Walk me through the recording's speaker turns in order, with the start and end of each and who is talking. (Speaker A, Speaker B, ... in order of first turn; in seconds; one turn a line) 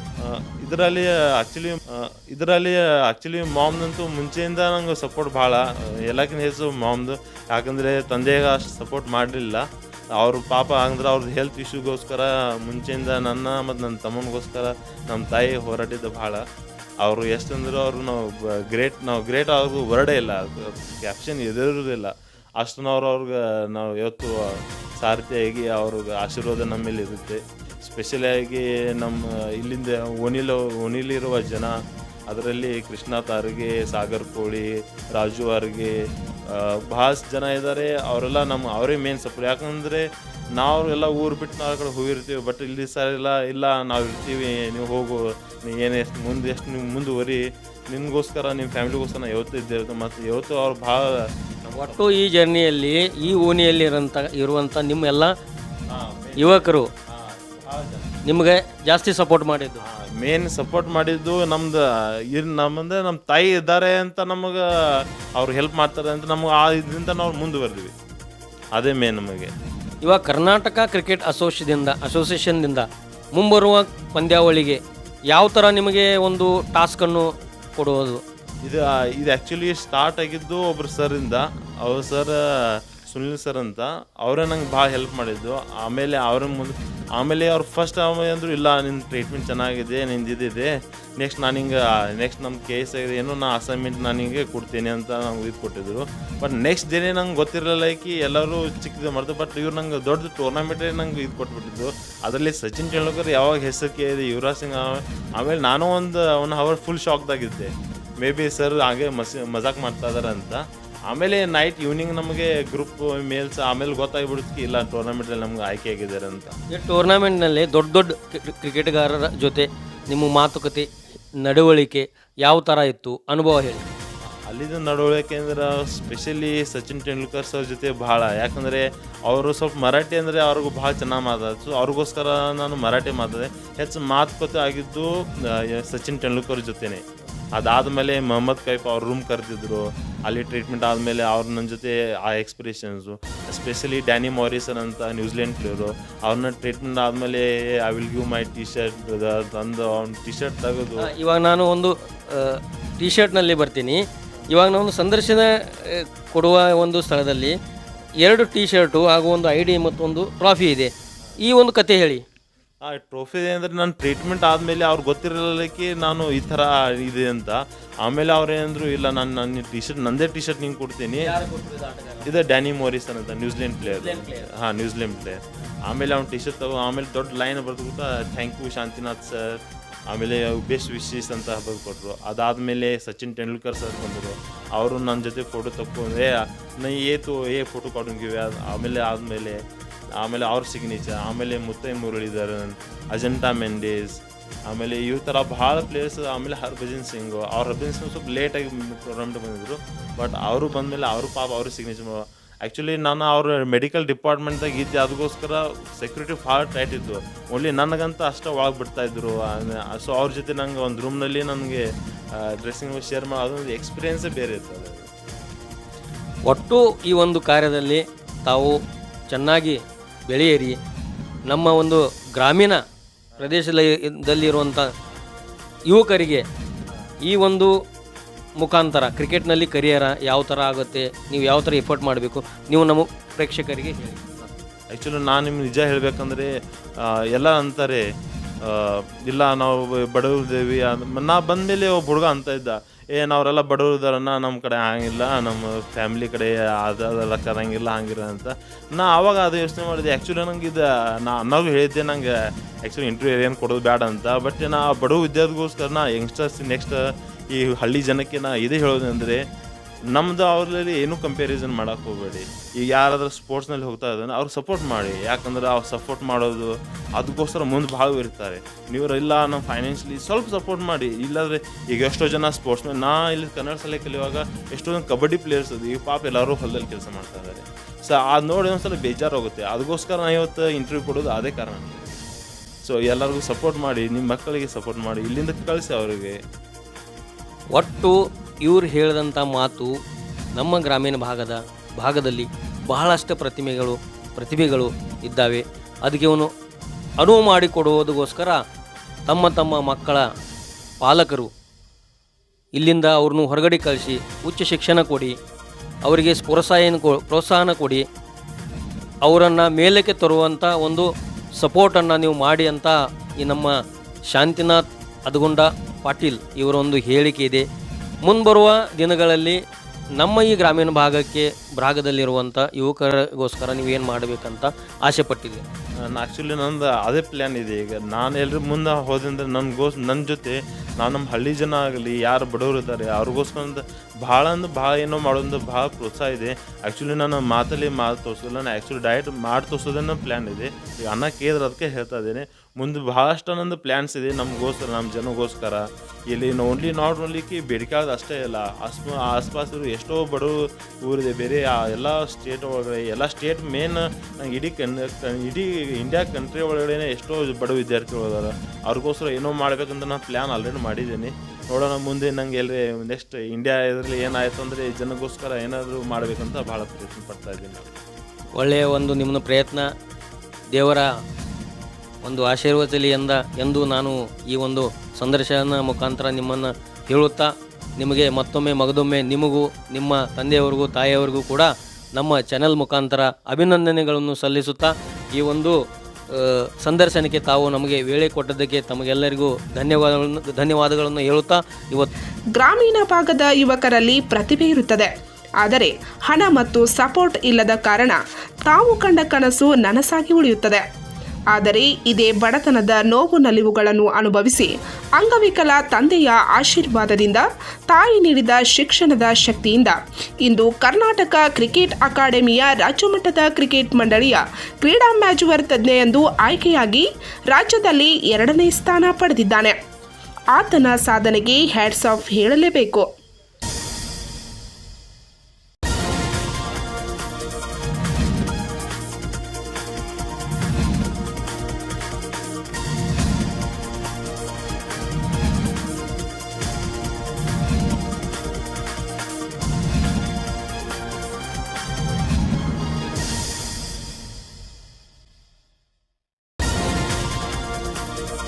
Speaker A: 0.2-16.4
Speaker A: 17.0-31.8
Speaker A: 32.3-52.2
Speaker B: 51.7-55.3
Speaker A: 55.9-58.2
Speaker B: 56.4-56.9
Speaker B: 58.2-59.9
Speaker A: 59.8-67.9
Speaker A: 68.7-69.5
Speaker B: 70.0-74.8
Speaker B: 75.3-78.2
Speaker A: 78.7-116.6
Speaker B: 116.7-120.9
Speaker B: 121.4-123.9
Speaker A: 124.2-137.0
Speaker A: 137.5-151.1
Speaker B: 151.0-157.5
Speaker B: 158.2-162.2
Speaker A: 162.8-171.3
Speaker B: 171.2-172.4
Speaker A: 172.2-189.6
Speaker B: 173.8-174.5
Speaker A: 190.2-211.8
Speaker A: 212.3-215.1
Speaker B: 216.5-218.8
Speaker B: 219.3-220.8
Speaker B: 221.5-222.8
Speaker B: 223.4-224.9
Speaker B: 225.9-226.4
Speaker B: 227.2-227.7
Speaker B: 228.6-234.5
Speaker A: 234.9-238.1
Speaker A: 238.6-259.4
Speaker A: 260.1-282.2
Speaker A: 282.9-286.4
Speaker B: 287.7-289.9
Speaker B: 290.6-296.5
Speaker B: 297.2-298.6
Speaker B: 299.3-300.3
Speaker B: 301.0-301.5
Speaker B: 302.8-305.3
Speaker B: 306.1-308.1
Speaker B: 309.2-313.8
Speaker B: 314.3-317.6
Speaker B: 318.2-319.6
Speaker B: 320.2-325.6
Speaker A: 326.0-368.0
Speaker B: 368.6-369.9
Speaker B: 370.7-371.1
Speaker B: 372.2-385.8
Speaker B: 386.3-392.1
Speaker C: 392.6-395.1
Speaker C: 395.6-400.8
Speaker C: 401.5-419.7
Speaker C: 420.6-423.1